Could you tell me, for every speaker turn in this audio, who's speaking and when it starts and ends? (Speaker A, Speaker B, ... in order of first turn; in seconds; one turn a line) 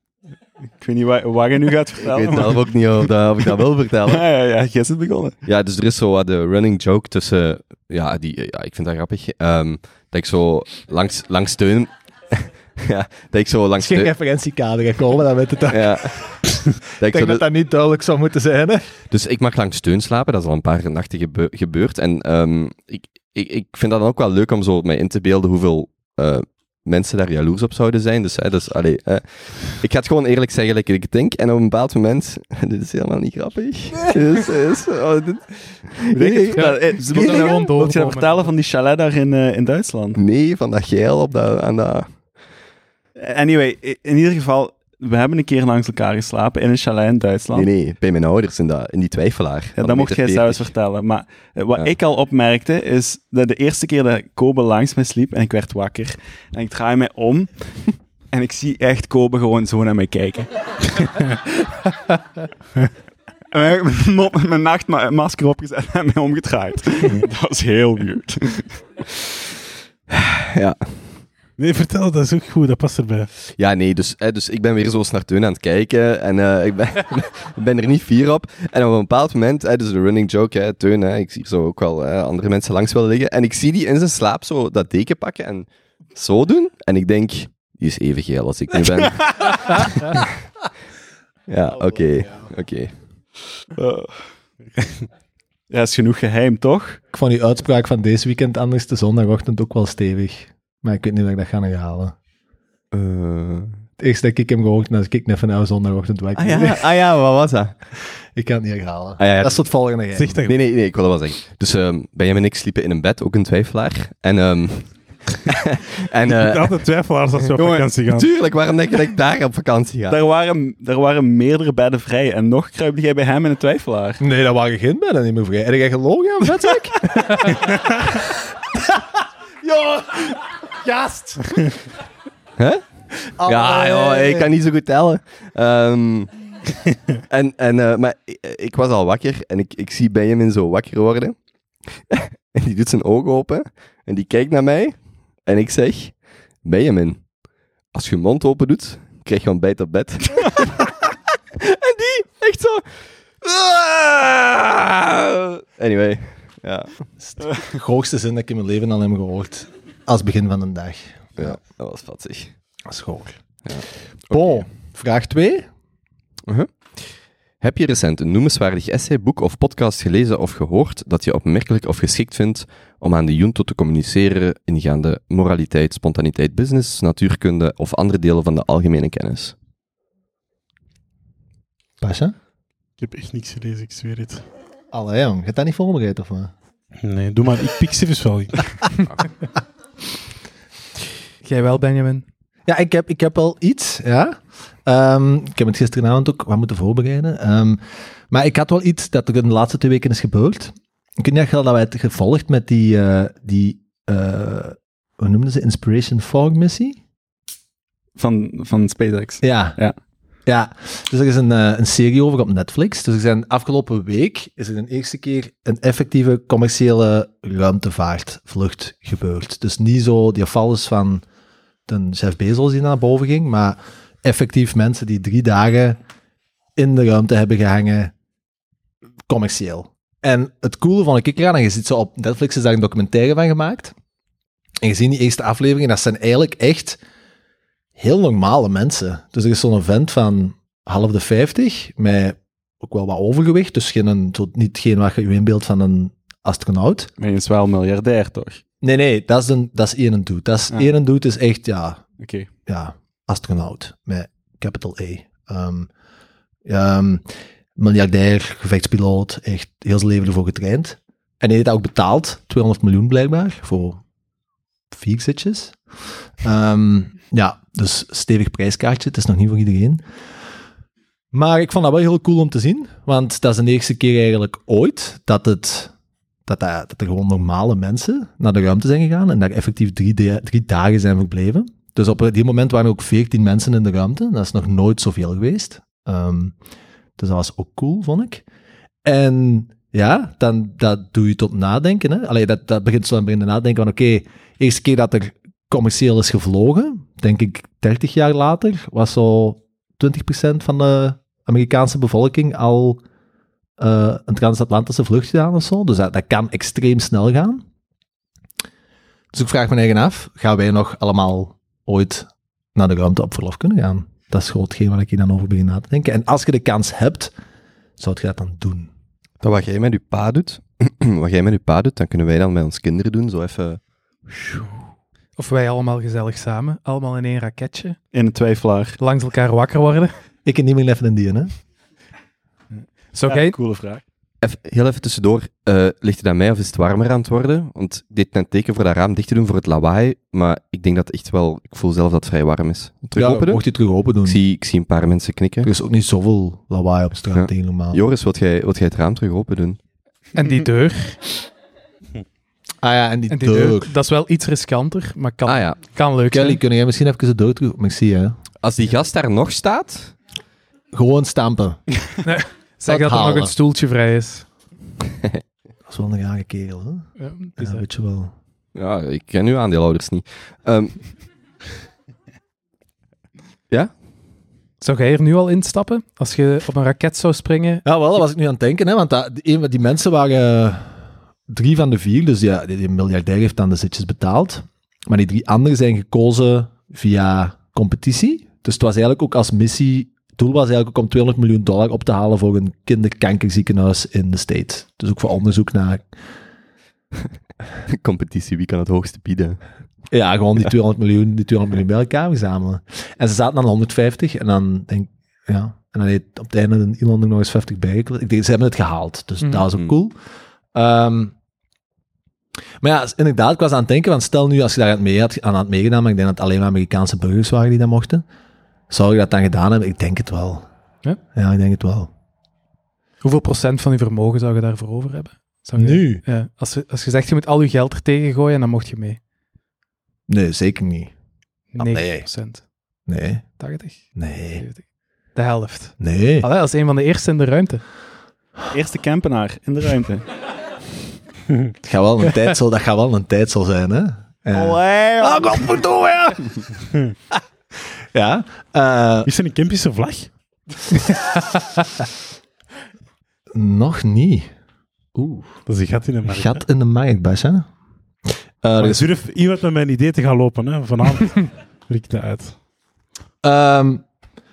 Speaker A: 0.8-5.4
Speaker B: 2.0-4.2
Speaker B: 5.4-14.1
Speaker C: 13.8-18.9
Speaker B: 15.7-16.2
Speaker B: 17.0-17.4
Speaker B: 19.1-37.6
Speaker A: 36.1-40.2
Speaker D: 36.5-38.5
Speaker B: 40.1-42.1
Speaker A: 43.2-47.7
Speaker B: 47.5-50.7
Speaker A: 49.8-61.1
Speaker A: 63.5-68.8
Speaker B: 70.1-70.9
Speaker E: 71.6-73.3
Speaker B: 73.5-90.3
Speaker A: 89.1-89.6
Speaker B: 91.5-92.9
Speaker A: 93.8-94.3
Speaker A: 95.7-97.0
Speaker C: 97.1-102.2
Speaker B: 102.9-103.8
Speaker C: 104.0-106.9
Speaker B: 106.4-107.8
Speaker C: 108.1-110.4
Speaker B: 109.2-109.6
Speaker E: 110.2-110.5
Speaker B: 110.5-116.8
Speaker E: 116.3-118.3
Speaker B: 117.4-120.2
Speaker A: 120.1-124.2
Speaker C: 124.2-128.0
Speaker C: 129.6-131.4
Speaker B: 132.6-132.8
Speaker C: 133.4-134.5
Speaker B: 133.4-136.3
Speaker B: 137.3-141.4
Speaker B: 141.9-147.2
Speaker B: 147.9-150.9
Speaker B: 151.6-152.8
Speaker B: 153.4-156.9
Speaker C: 157.2-161.6
Speaker B: 161.4-162.5
Speaker C: 162.9-163.4
Speaker B: 163.7-164.6
Speaker C: 164.3-165.7
Speaker B: 166.4-167.1
Speaker B: 167.6-179.6
Speaker C: 182.0-182.3
Speaker E: 183.0-184.4
Speaker C: 184.9-186.5
Speaker E: 187.0-188.9
Speaker D: 191.4-192.2
Speaker C: 192.7-207.0
Speaker A: 208.2-209.9
Speaker C: 209.4-209.8
Speaker C: 210.5-221.2
Speaker C: 221.9-226.0
Speaker C: 226.8-228.1
Speaker C: 229.3-233.9
Speaker C: 234.8-237.0
Speaker C: 238.0-247.1
Speaker A: 247.2-248.6
Speaker C: 248.8-252.0
Speaker A: 252.2-252.5
Speaker C: 252.7-255.9
Speaker C: 256.7-264.0
Speaker C: 264.9-265.8
Speaker C: 266.4-270.0
Speaker C: 271.3-275.9
Speaker C: 276.5-286.5
Speaker C: 287.2-288.4
Speaker C: 289.1-303.0
Speaker C: 303.8-307.6
Speaker C: 309.3-317.3
Speaker C: 318.0-318.9
Speaker B: 319.4-324.6
Speaker D: 325.4-328.0
Speaker A: 328.1-329.0
Speaker D: 329.0-330.1
Speaker C: 330.4-331.5
Speaker D: 333.1-333.6
Speaker A: 333.3-334.0
Speaker B: 334.4-343.6
Speaker C: 343.1-344.4
Speaker B: 344.2-345.7
Speaker C: 345.6-348.0
Speaker B: 347.3-349.8
Speaker D: 350.4-351.2
Speaker C: 352.8-353.9
Speaker D: 353.3-356.6
Speaker B: 355.4-355.8
Speaker C: 356.3-358.4
Speaker B: 358.6-360.1
Speaker C: 360.9-361.8
Speaker D: 362.2-364.4
Speaker C: 362.9-363.5
Speaker C: 365.9-368.3
Speaker D: 367.2-367.8
Speaker B: 368.8-371.0
Speaker D: 374.8-377.8
Speaker C: 377.9-381.0
Speaker C: 381.5-396.1
Speaker B: 397.9-399.6
Speaker C: 400.1-410.2
Speaker C: 410.7-411.3
Speaker C: 412.8-418.2
Speaker C: 418.9-420.7
Speaker C: 421.3-422.1
Speaker D: 423.2-429.2
Speaker C: 425.8-426.2
Speaker C: 430.3-431.1
Speaker D: 431.8-432.6
Speaker C: 431.8-432.3
Speaker C: 433.1-433.6
Speaker D: 433.6-437.8
Speaker C: 434.1-434.7
Speaker C: 436.0-436.5
Speaker A: 438.7-440.3
Speaker C: 441.8-446.6
Speaker A: 444.5-445.8
Speaker C: 448.1-449.3
Speaker E: 449.2-450.3
Speaker C: 453.5-454.5
Speaker C: 455.1-455.6
Speaker E: 455.7-456.6
Speaker C: 456.2-457.7
Speaker C: 458.6-459.1
Speaker E: 458.8-462.6
Speaker C: 463.4-464.1